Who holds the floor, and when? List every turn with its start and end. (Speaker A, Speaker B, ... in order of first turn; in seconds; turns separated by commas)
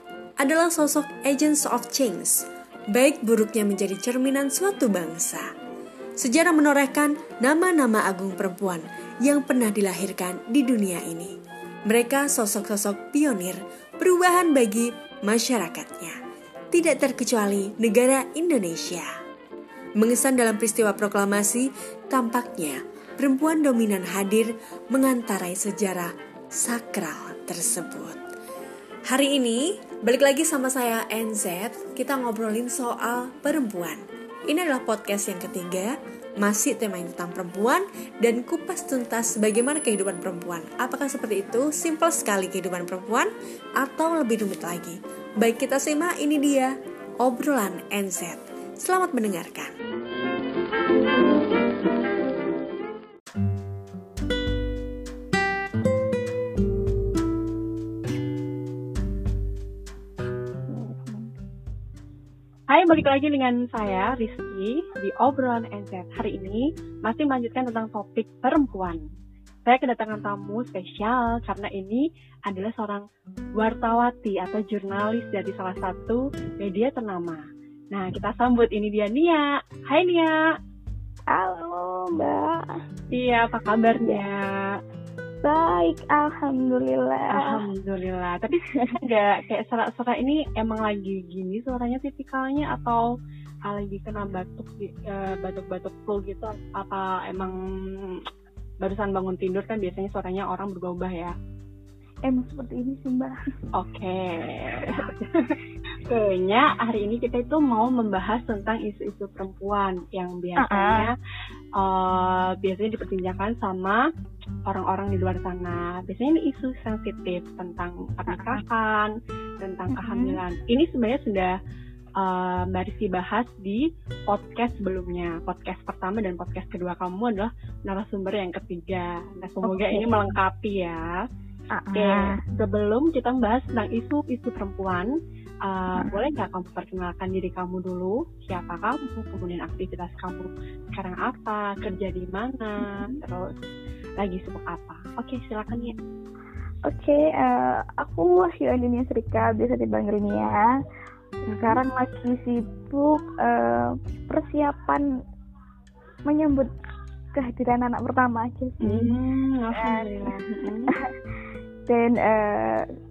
Speaker A: 0.4-5.5, Speaker A: 6.2-11.3, Speaker A: 11.9-16.2, Speaker A: 16.7-19.1, Speaker A: 20.0-28.2, Speaker A: 29.1-49.7, Speaker B: 60.7-61.3, Speaker C: 62.7-69.0, Speaker C: 69.7-73.0, Speaker C: 73.6-77.4, Speaker C: 77.9-80.4, Speaker B: 81.3-82.8, Speaker C: 83.1-84.8, Speaker B: 85.4-87.6, Speaker C: 87.3-93.0, Speaker C: 93.7-98.2, Speaker C: 98.8-101.3, Speaker B: 102.3-103.3, Speaker C: 103.8-111.1, Speaker B: 104.8-105.1, Speaker B: 110.6-111.1, Speaker C: 111.8-114.0, Speaker C: 114.7-121.5, Speaker B: 118.3-118.6, Speaker B: 119.9-120.4, Speaker C: 122.2-131.3, Speaker B: 129.6-130.3, Speaker B: 131.7-132.4, Speaker C: 131.9-135.1, Speaker C: 135.6-143.5, Speaker B: 135.9-136.2, Speaker B: 142.8-143.1, Speaker C: 144.2-145.9, Speaker B: 146.8-150.7, Speaker C: 151.5-151.8, Speaker B: 151.5-155.0, Speaker B: 156.2-156.7, Speaker B: 157.3-159.2, Speaker C: 158.8-161.0, Speaker B: 159.8-160.3, Speaker B: 160.9-161.2, Speaker B: 161.9-162.9